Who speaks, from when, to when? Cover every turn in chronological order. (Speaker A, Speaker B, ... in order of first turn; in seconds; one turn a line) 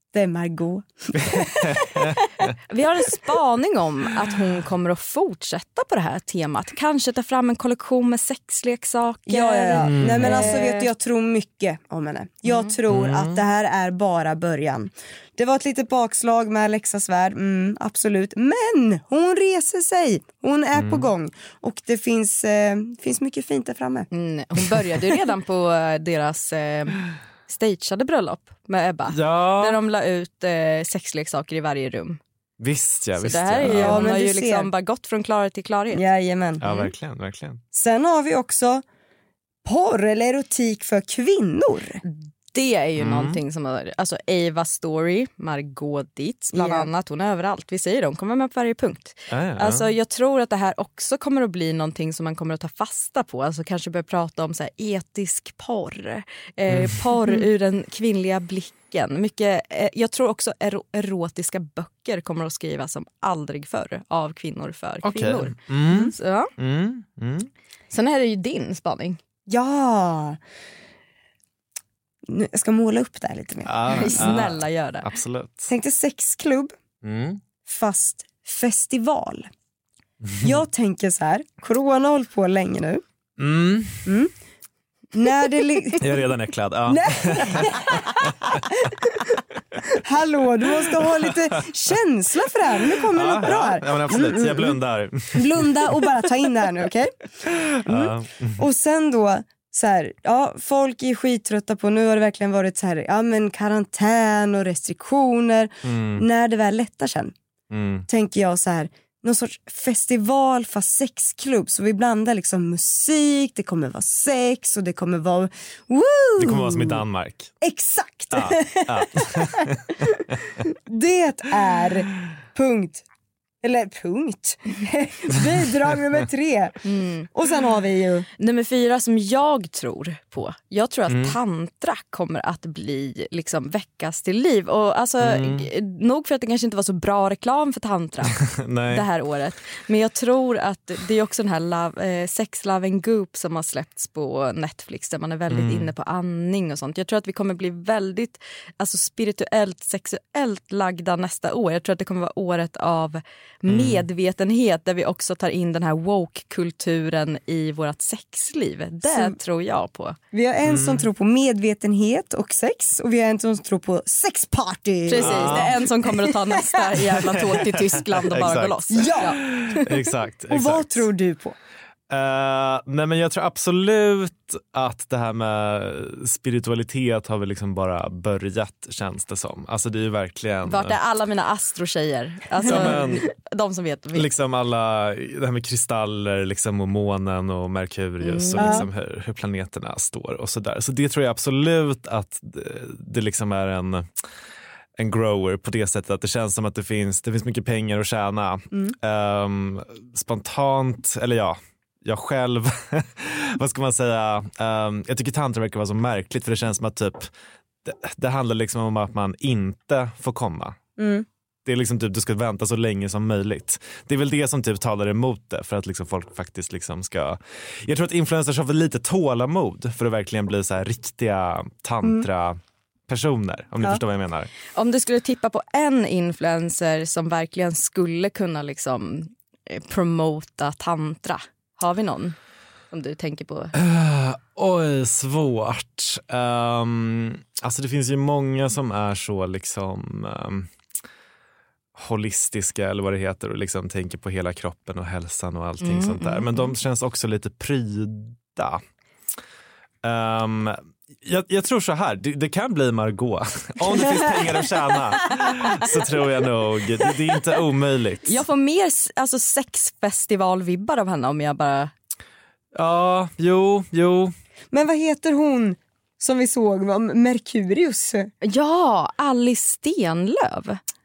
Speaker A: 0.1-2.1
Speaker B: 1.2-2.5
Speaker C: 2.7-10.9
Speaker A: 9.3-24.1
Speaker B: 9.8-10.6
Speaker C: 12.5-12.7
Speaker B: 12.9-13.4
Speaker B: 20.7-21.1
Speaker C: 24.1-32.2
Speaker B: 29.1-29.8
Speaker B: 32.6-34.1
Speaker C: 33.2-36.0
Speaker A: 33.6-34.7
Speaker A: 35.9-36.6
Speaker B: 36.6-37.6
Speaker A: 37.7-38.8
Speaker A: 39.6-42.0
Speaker C: 42.0-66.5
Speaker B: 43.0-43.4
Speaker A: 46.5-46.9
Speaker B: 49.3-49.9
Speaker B: 56.7-57.0
Speaker B: 65.0-67.5
Speaker C: 67.9-69.2
Speaker A: 69.5-70.4
Speaker A: 72.2-74.4
Speaker B: 73.7-75.7
Speaker C: 73.9-75.1
Speaker A: 75.7-76.7
Speaker B: 77.0-77.4
Speaker A: 77.7-79.5
Speaker B: 80.2-80.6
Speaker A: 80.4-83.0
Speaker B: 83.4-84.0
Speaker A: 84.0-84.3
Speaker A: 85.1-86.3
Speaker B: 86.0-88.9
Speaker A: 86.9-89.3
Speaker A: 89.9-94.8
Speaker B: 93.1-95.9
Speaker A: 95.3-97.2
Speaker B: 97.5-98.7
Speaker A: 97.8-107.3
Speaker B: 105.8-106.2
Speaker B: 107.7-108.1
Speaker A: 108.1-117.0
Speaker B: 116.4-117.5
Speaker A: 117.6-123.0
Speaker B: 118.3-120.6
Speaker A: 123.6-126.8
Speaker C: 126.8-127.3
Speaker A: 127.3-128.3
Speaker C: 128.4-160.2
Speaker B: 131.1-131.3
Speaker B: 135.2-135.7
Speaker B: 138.4-139.1
Speaker B: 145.5-145.9
Speaker B: 153.7-154.1
Speaker A: 159.1-159.4
Speaker A: 160.3-166.9
Speaker B: 160.6-161.1
Speaker C: 165.1-169.8
Speaker B: 165.2-165.8
Speaker B: 167.2-171.1
Speaker A: 168.9-169.5
Speaker A: 170.5-171.6
Speaker B: 172.1-181.0
Speaker C: 180.7-184.3
Speaker B: 182.6-183.3
Speaker B: 184.1-194.1
Speaker C: 188.2-188.9
Speaker A: 188.6-188.8
Speaker B: 195.0-207.3
Speaker B: 207.8-210.8
Speaker A: 211.0-211.2
Speaker B: 211.7-224.5
Speaker C: 224.7-232.3
Speaker C: 232.9-233.7
Speaker B: 233.7-240.7
Speaker B: 241.9-248.8
Speaker C: 245.8-246.7
Speaker B: 250.0-258.4
Speaker C: 258.2-261.9
Speaker B: 262.7-264.3
Speaker A: 264.7-268.3
Speaker C: 268.4-270.8